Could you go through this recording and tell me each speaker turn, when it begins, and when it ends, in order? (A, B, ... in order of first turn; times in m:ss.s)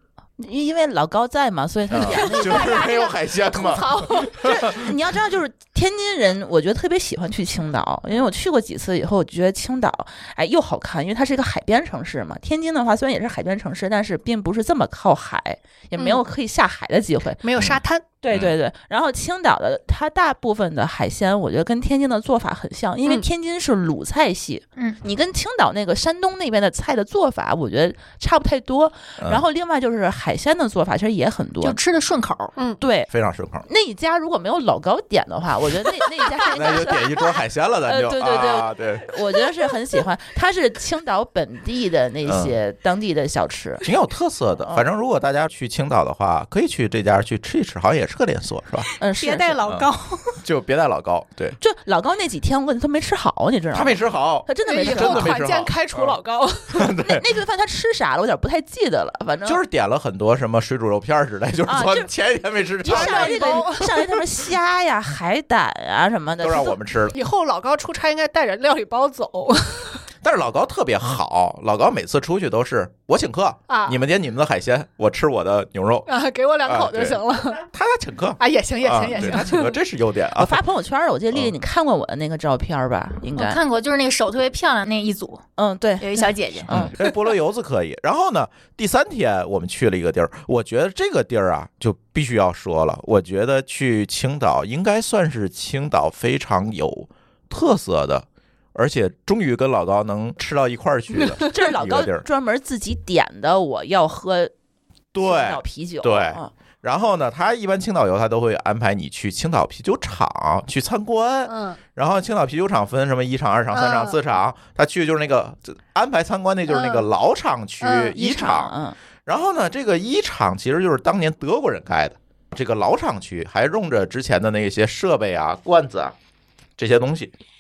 0:00.4-0:03.0 A
0:01.9-0:04.9 B
0:02.0-0:04.5 C
0:04.3-0:17.4 A
0:16.0-0:16.2 C
0:17.4-0:18.1 C
0:17.6-0:18.6 B
0:18.2-0:31.8 A
0:31.6-0:32.5 D
0:32.6-0:32.8 C
0:32.8-0:33.1 A
0:33.1-0:33.7 B
0:33.6-0:43.9 A
0:36.5-0:39.1 B
0:42.2-0:42.6 B
0:43.8-0:48.9 B
0:49.0-0:49.9 A
0:49.1-0:50.4 C
0:50.4-0:51.6 B
0:51.6-0:55.4 A
0:53.7-0:56.2 B
0:54.7-0:56.9 C
0:56.7-0:57.2 B
0:57.0-0:59.6 A
0:59.4-1:03.7 B
1:01.7-1:02.1 A
1:02.8-1:06.8 A
1:02.9-1:04.2 C
1:06.4-1:07.2 B
1:07.1-1:10.0 C
1:10.2-1:16.1 B
1:13.7-1:14.0 C
1:16.1-1:17.6 C
1:16.6-1:20.6 B
1:18.4-1:19.8 C
1:20.4-1:23.6 A
1:23.4-1:25.4 D
1:25.6-1:27.0 A
1:26.0-1:26.7 D
1:26.7-1:42.2 B
1:41.4-1:44.5 A
1:45.1-1:58.7 B
1:45.2-1:46.5 A
1:51.5-1:51.8 C
1:53.7-1:54.2 C
1:56.7-1:57.1 C
1:57.8-1:58.1 C
1:58.2-1:59.0 A
1:59.2-2:06.1 B
2:06.8-2:07.3 B